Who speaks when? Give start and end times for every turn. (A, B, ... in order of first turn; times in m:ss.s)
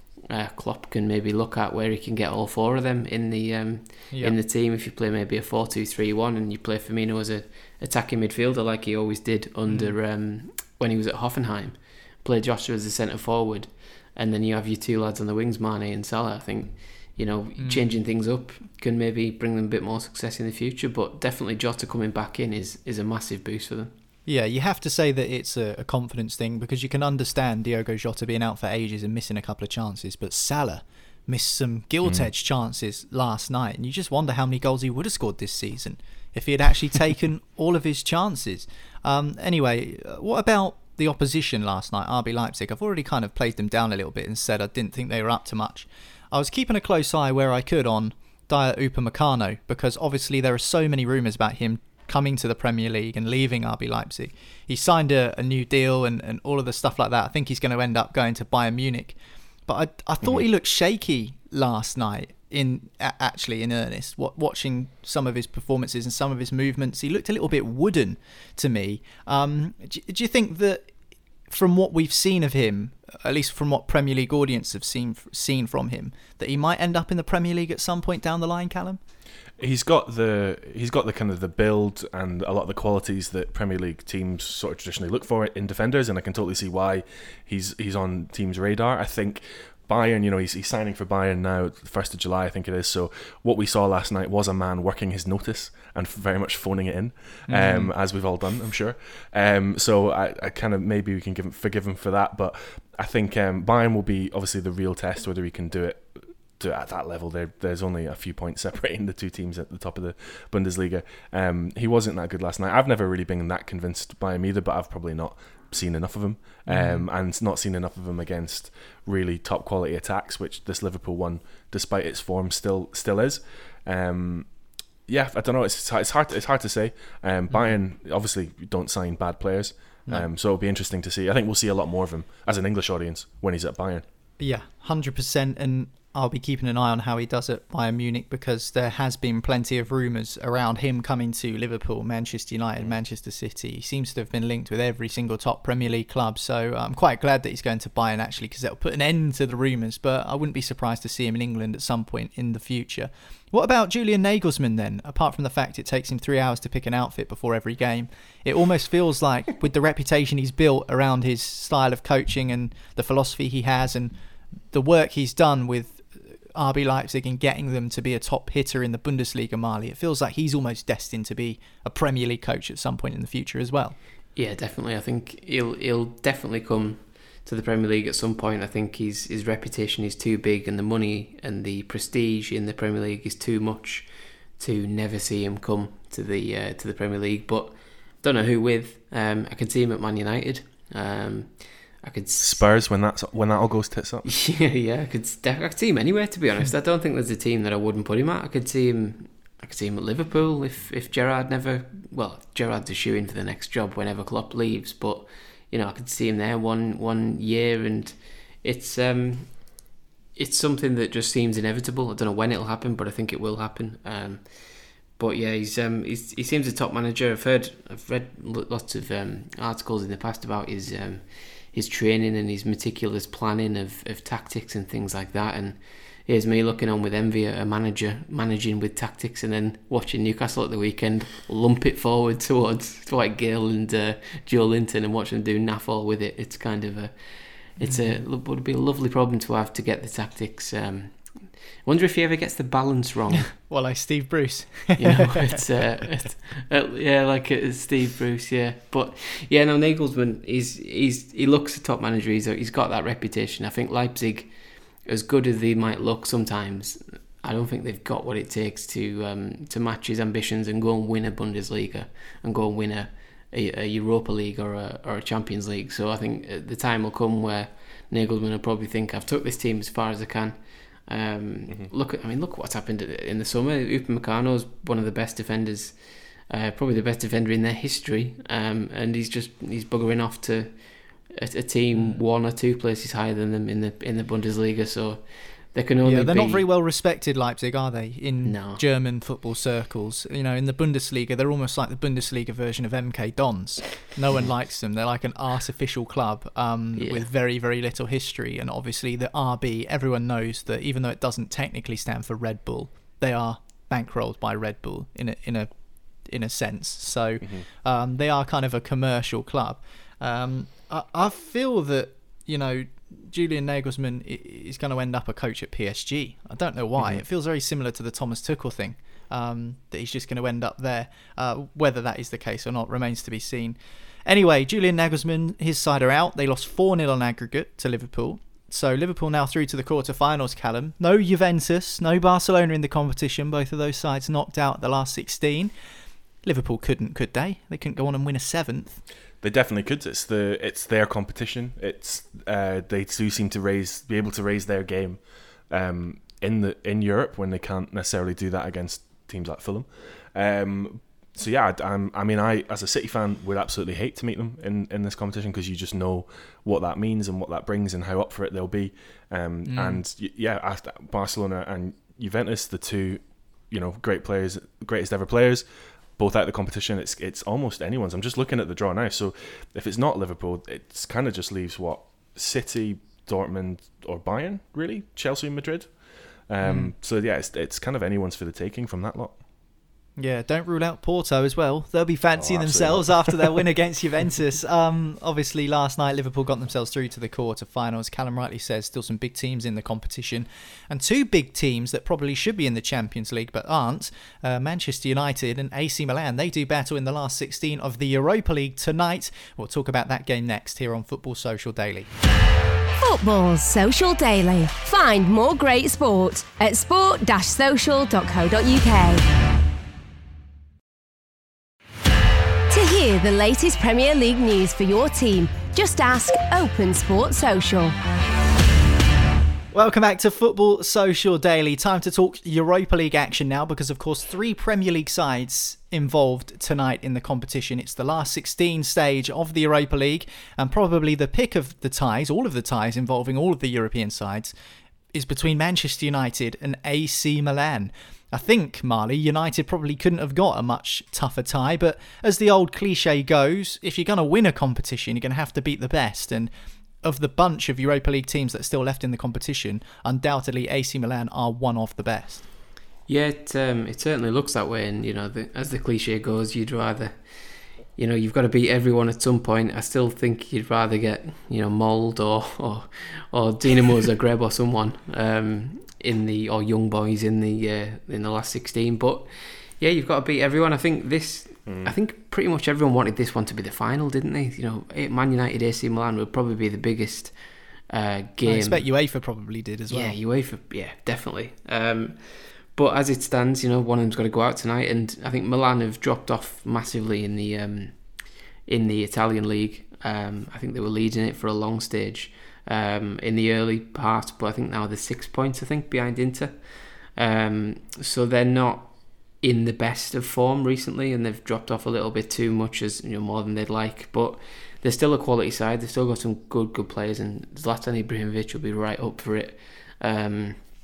0:00.3-0:23.9 A
0:04.1-0:04.4 B
0:09.7-0:09.9 B
0:17.6-0:17.9 B
0:24.2-1:10.8 B
1:11.5-1:19.0 B
1:19.6-2:04.5 C
1:37.5-1:37.9 B
1:56.7-1:57.1 B
2:05.1-2:14.0 C
2:07.5-2:07.8 B
2:14.4-2:44.1 B
2:44.7-2:54.0 B
2:54.4-3:12.6 A
3:12.4-3:14.2 C
3:14.2-3:29.8 A
3:30.4-3:34.5 A
3:35.2-4:01.2 A
3:57.8-3:58.2 B
4:01.8-4:03.5 A
4:03.5-4:05.6 B
4:05.0-4:14.5 A
4:15.0-4:46.6 A
4:46.0-5:05.7 B
4:48.4-4:48.8 A
4:57.0-4:57.3 A
5:06.2-5:35.7 B
5:36.4-5:39.0 B
5:39.4-5:45.2 C
5:45.7-6:05.6 C
5:59.7-6:00.0 B
6:06.2-6:15.9 C
6:16.5-6:19.4 C
6:16.6-6:16.9 B
6:20.2-6:42.1 B
6:22.4-6:23.6 C
6:43.0-6:49.2 D
6:52.7-6:58.0 D
6:59.7-7:14.5 B
7:15.1-7:26.5 B
7:27.0-7:32.4 B
7:33.1-7:37.2 A
7:38.0-7:49.3 A
7:49.8-7:57.3 A
7:51.6-7:51.9 C
7:57.9-7:58.8 A
7:58.4-8:00.2 B
7:59.9-8:02.2 A
8:02.7-8:07.9 A
8:08.6-8:16.6 A
8:17.1-8:30.6 A